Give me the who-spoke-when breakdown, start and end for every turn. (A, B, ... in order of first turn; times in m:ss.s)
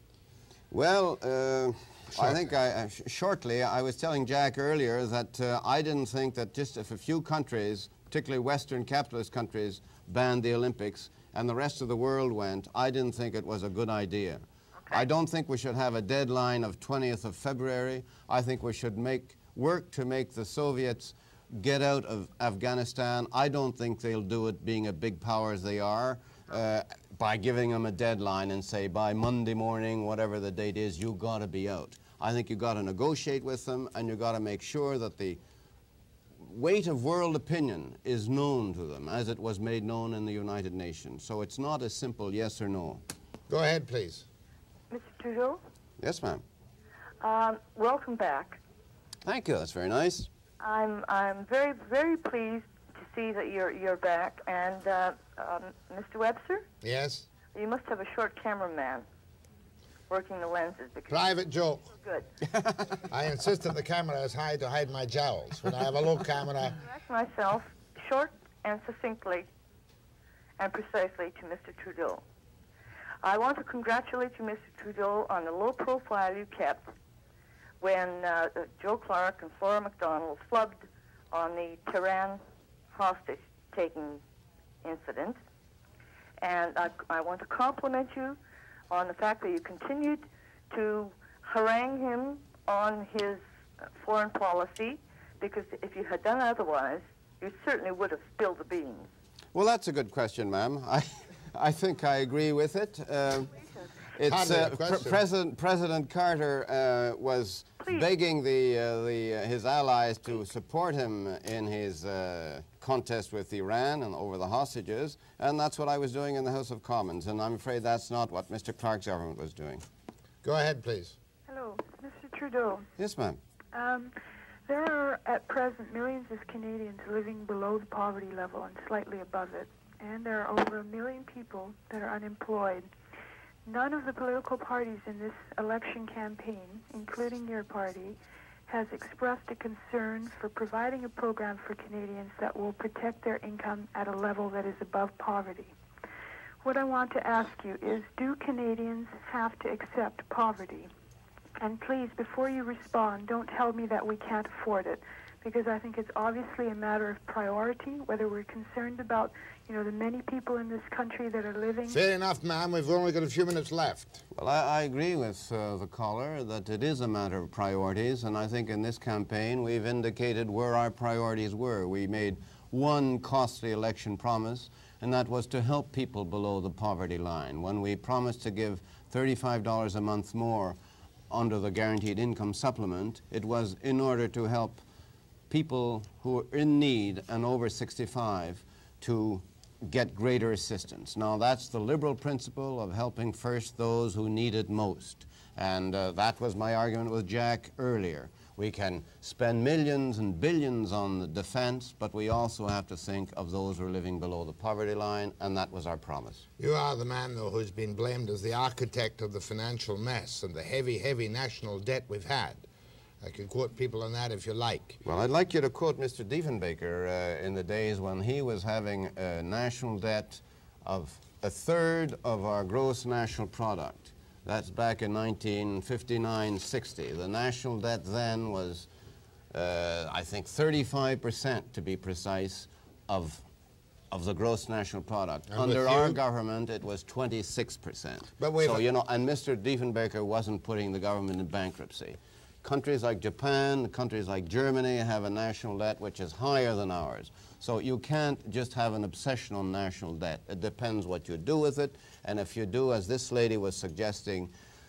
0:00.7-0:35.4 A
0:36.4-0:43.0 A
0:43.5-0:44.3 B
0:44.9-0:45.6 C
0:46.0-0:46.4 A
0:47.2-0:48.6 C
0:49.2-0:50.3 A
0:50.6-0:56.7 C
0:56.8-0:57.3 B
0:57.5-0:59.1 C
1:00.1-1:01.3 C
1:01.1-1:01.9 B
1:02.0-1:02.3 C
1:03.1-1:06.8 B
1:06.8-1:09.5 C
1:10.6-1:12.2 C
1:13.2-1:16.9 C
1:17.8-1:22.4 C
1:22.9-1:24.2 C
1:24.8-1:25.4 C
1:26.4-1:28.4 C
1:28.9-1:33.4 C
1:34.0-1:39.1 C
1:39.5-1:43.6 A
1:44.1-1:59.8 A
1:44.2-1:45.2 B
2:00.4-2:01.2 B
2:01.5-2:02.9 D
2:03.0-2:03.4 A
2:03.7-2:04.2 D
2:04.7-2:12.9 D
2:13.6-2:18.2 D
2:18.7-2:25.7 D
2:26.6-2:30.9 D
2:31.6-2:42.0 D
2:41.9-2:44.2 B
2:44.3-3:00.8 A
3:01.3-3:04.8 A
3:05.5-3:26.4 A
3:26.6-3:32.6 B
3:33.2-3:35.0 B
3:35.0-3:48.9 A
3:49.5-3:53.5 A
3:54.1-4:14.5 A
3:55.5-3:56.2 B
3:58.4-3:58.8 B